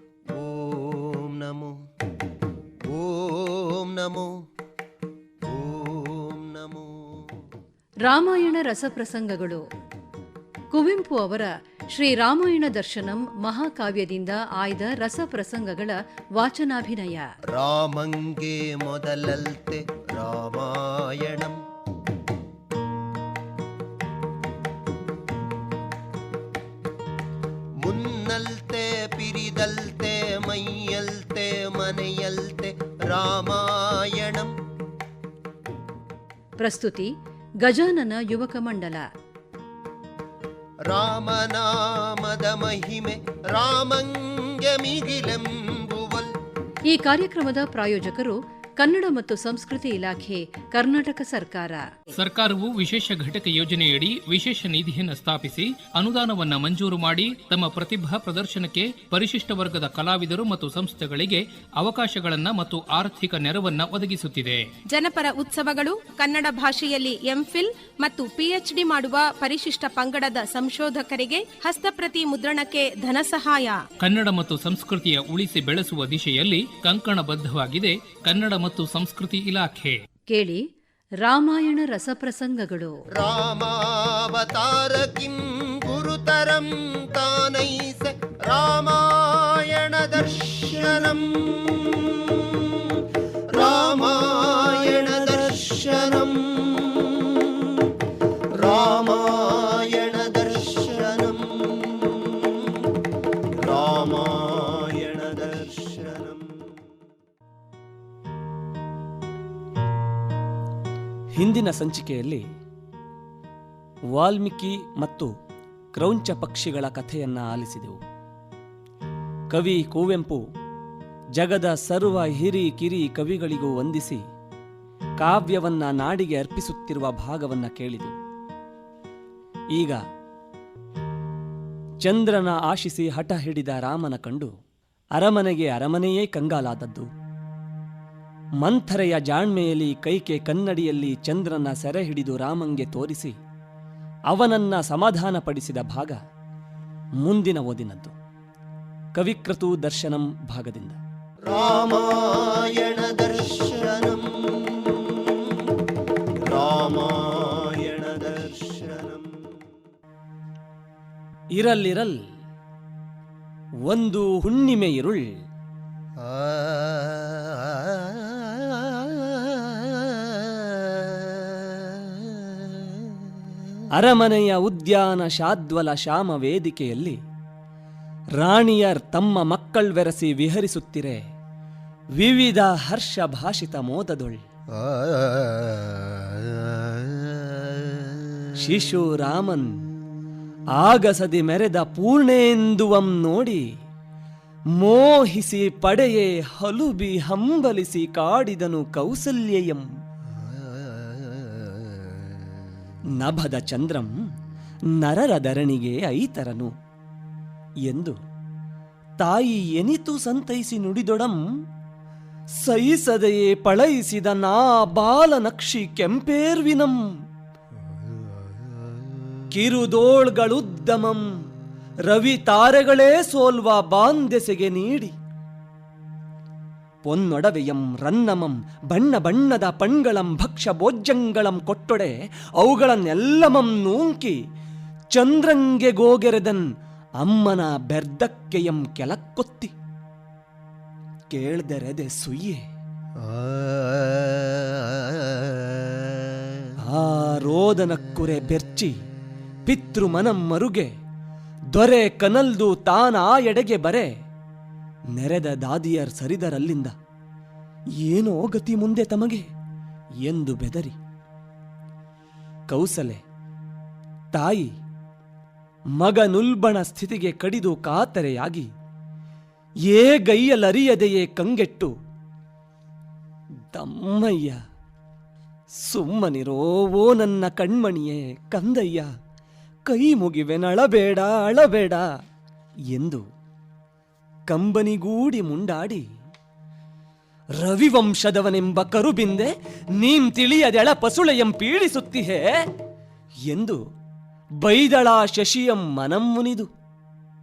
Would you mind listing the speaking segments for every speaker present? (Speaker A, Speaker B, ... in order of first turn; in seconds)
Speaker A: 0.3-1.7, 2.9-4.3, 5.5-7.2, 17.5-21.6, 27.8-34.5, 40.9-46.3, 83.2-97.8, 98.5-102.7, 103.5-106.6, 151.4-155.4, 156.4-159.4, 166.2-173.0, 184.8-187.3, 200.8-201.5, 243.2-246.0
Speaker B: 8.0-9.6, 10.7-17.2, 36.6-37.1, 37.6-39.0, 46.9-51.8, 80.3-80.6, 81.2-82.9
Speaker C: 52.2-64.6, 74.0-79.9
Speaker D: 64.9-73.8
Speaker E: 111.3-112.4, 114.1-115.3, 115.9-118.0, 119.5-120.4, 121.3-124.2, 125.2-128.1, 129.7-130.0, 132.0-134.5, 135.1-137.1, 138.6-143.3, 144.3-146.2, 147.2-148.1, 149.1-151.0, 161.5-162.2, 163.8-165.2, 173.9-177.2, 178.4-181.2, 182.2-184.4, 188.6-189.8, 190.7-193.6, 194.8-199.8, 203.2-204.2, 204.9-206.7, 207.8-208.2, 209.2-211.4, 212.6-217.1, 219.5-221.4, 222.1-225.1, 227.0-234.4, 235.1-236.7, 237.2-239.7, 241.3-242.6, 246.8-248.9, 249.7-250.9, 251.7-254.1, 255.1-256.9, 258.0-259.5, 260.2-261.0, 262.7-263.2, 264.3-264.7, 266.0-268.7, 269.9-271.9, 273.7-274.6, 275.8-279.1, 279.9-282.1, 282.9-283.2, 284.5-286.0, 287.6-292.5, 293.5-293.8, 294.6-296.7